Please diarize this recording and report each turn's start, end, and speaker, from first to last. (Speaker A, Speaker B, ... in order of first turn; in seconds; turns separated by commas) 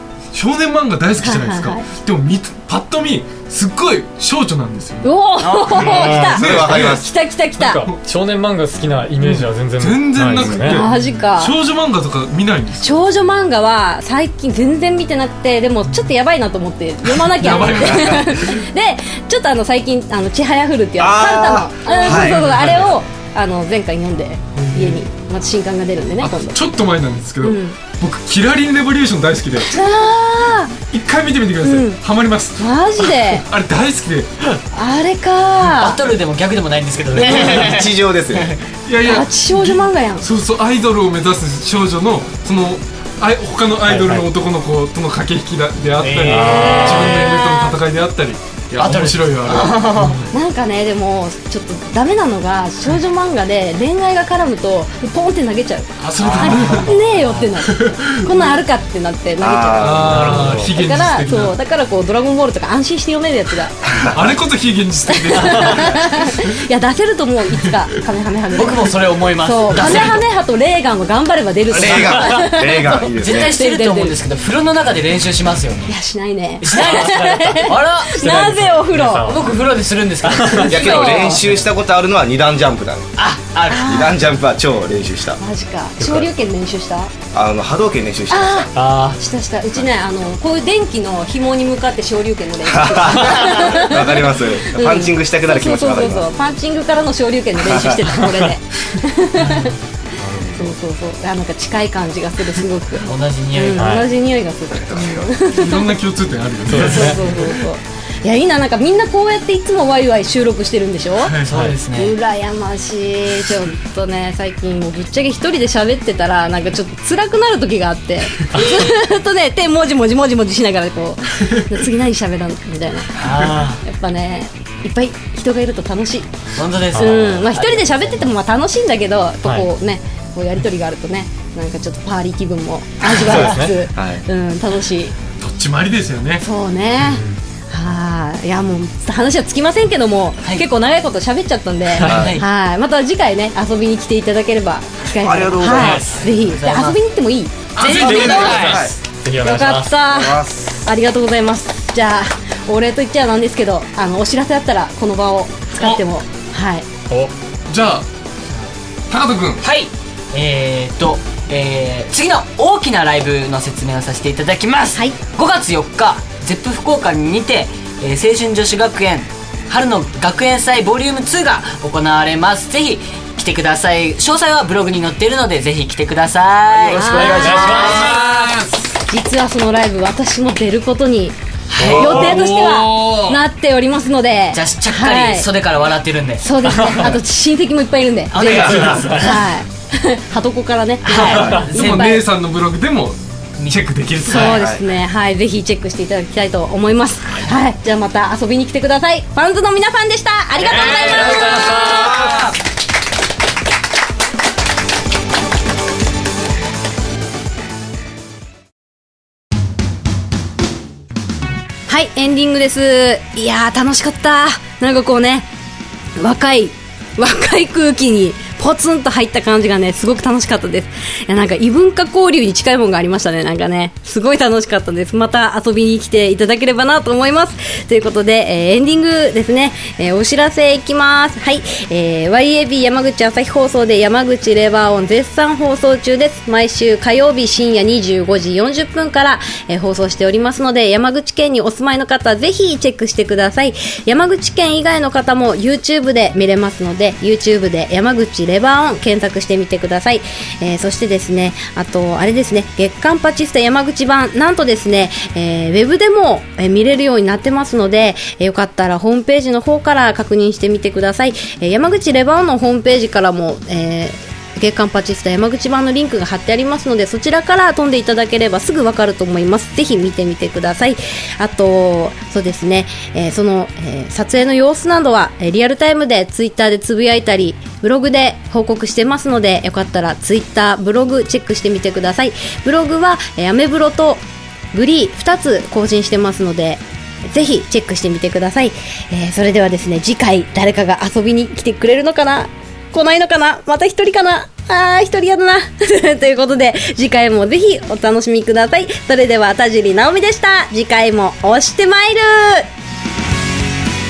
Speaker A: 0.3-5.1, Speaker B: 1.2-1.9, Speaker B: 5.0-7.8, Speaker C: 5.4-6.2, Speaker D: 5.7-6.4, Speaker A: 6.0-7.0, Speaker E: 6.2-7.1, Speaker D: 7.6-10.9, Speaker A: 7.7-8.0, Speaker A: 9.2-13.0, Speaker B: 10.6-11.5, Speaker B: 12.8-26.6, Speaker A: 17.2-18.6, Speaker E: 17.5-18.2, Speaker E: 21.0-22.6, Speaker A: 21.9-23.0, Speaker A: 24.6-25.0, Speaker A: 26.2-29.8, Speaker B: 27.4-27.8, Speaker B: 29.6-30.7, Speaker A: 30.9-34.3, Speaker B: 31.6-32.0, Speaker B: 32.6-33.5, Speaker B: 34.7-36.0, Speaker C: 35.6-38.6, Speaker E: 37.1-38.5, Speaker A: 38.9-50.3, Speaker B: 39.0-40.3, Speaker D: 43.8-44.3, Speaker C: 46.0-47.3, Speaker D: 46.2-47.2, Speaker B: 46.4-47.8, Speaker C: 48.8-50.2, Speaker B: 50.3-63.8, Speaker A: 56.0-57.0, Speaker E: 56.3-56.8, Speaker C: 56.4-57.4, Speaker A: 57.6-58.4, Speaker E: 59.4-60.5, Speaker A: 59.8-61.5, Speaker D: 60.0-60.8, Speaker E: 63.9-64.2, Speaker A: 64.1-66.5, Speaker B: 65.1-74.2, Speaker C: 68.5-70.2, Speaker E: 71.7-73.5, Speaker C: 73.2-75.9, Speaker B: 75.9-79.3, Speaker C: 76.6-78.4, Speaker D: 76.7-79.7, Speaker C: 79.2-81.0, Speaker D: 80.3-80.8, Speaker B: 80.5-81.4, Speaker E: 80.6-83.1, Speaker C: 83.2-84.0, Speaker B: 83.7-84.1, Speaker E: 83.7-85.4, Speaker B: 85.4-87.1, Speaker D: 86.0-86.3, Speaker E: 87.3-88.7, Speaker B: 88.3-99.7, Speaker D: 88.7-89.2, Speaker E: 92.7-96.3, Speaker E: 97.6-98.0, Speaker D: 98.2-98.5, Speaker C: 99.3-99.8, Speaker D: 100.2-100.7, Speaker B: 100.5-106.0, Speaker C: 103.0-103.9, Speaker D: 103.8-104.1, Speaker E: 104.8-105.3, Speaker A: 105.5-107.6, Speaker D: 106.7-107.2, Speaker B: 106.7-111.3, Speaker A: 111.2-111.5, Speaker C: 111.4-112.1, Speaker D: 111.5-111.8, Speaker B: 112.0-123.2, Speaker D: 118.5-118.8, Speaker C: 118.5-119.0, Speaker C: 123.2-123.8, Speaker B: 123.8-126.3, Speaker C: 126.5-128.2, Speaker D: 126.9-127.4, Speaker B: 126.9-135.1, Speaker D: 129.4-129.7, Speaker D: 133.2-133.8, Speaker E: 133.9-134.2, Speaker A: 135.4-136.4, Speaker B: 136.4-147.6, Speaker D: 137.0-137.4, Speaker E: 142.0-142.4, Speaker C: 142.1-142.4, Speaker E: 145.2-146.0, Speaker C: 145.7-147.0, Speaker D: 145.8-146.1, Speaker A: 147.8-148.5, Speaker C: 147.8-148.8, Speaker E: 147.8-148.9, Speaker D: 147.9-150.0, Speaker B: 148.2-148.8, Speaker B: 149.4-156.8, Speaker E: 150.1-150.7, Speaker A: 157.7-158.1, Speaker A: 159.1-159.7, Speaker C: 159.6-178.5, Speaker D: 176.9-178.1, Speaker B: 176.9-177.9, Speaker A: 177.6-178.8, Speaker B: 179.1-185.5, Speaker C: 181.7-182.4, Speaker A: 181.8-183.4, Speaker C: 184.5-186.9, Speaker B: 186.4-192.2, Speaker C: 188.3-189.4, Speaker E: 188.4-189.2, Speaker C: 191.0-192.1, Speaker A: 191.1-194.6, Speaker C: 193.6-193.8, Speaker B: 194.2-202.1, Speaker E: 194.4-194.8, Speaker C: 200.6-202.5, Speaker D: 200.7-202.4, Speaker E: 202.0-202.4, Speaker B: 211.9-215.4, Speaker B: 216.2-284.2, Speaker B: 284.7-302.6